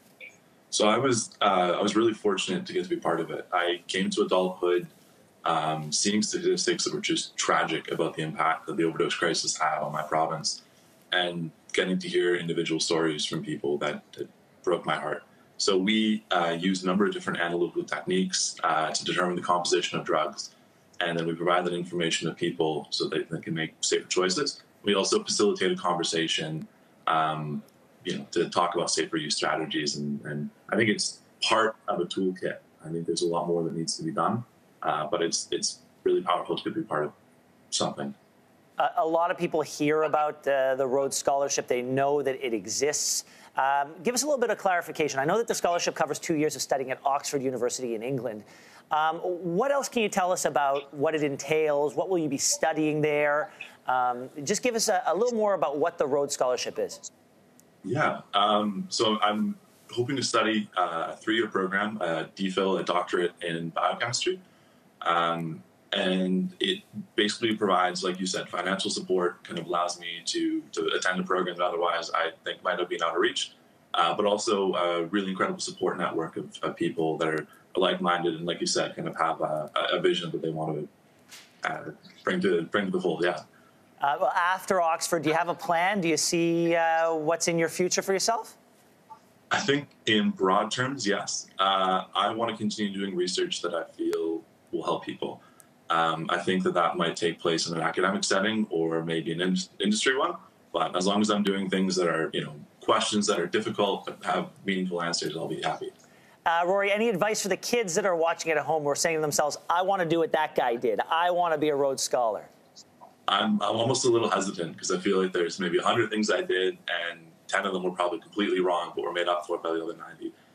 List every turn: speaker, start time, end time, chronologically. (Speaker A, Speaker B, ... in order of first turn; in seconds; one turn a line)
Speaker A: 0.7-4.9
Speaker A: 5.5-37.1
Speaker A: 37.7-38.1
Speaker B: 38.8-57.0
Speaker A: 57.8-64.4
Speaker A: 65.0-80.9
Speaker A: 81.6-83.4
Speaker B: 84.0-88.6
Speaker A: 89.5-105.9
Speaker B: 106.5-112.5
Speaker A: 113.3-120.3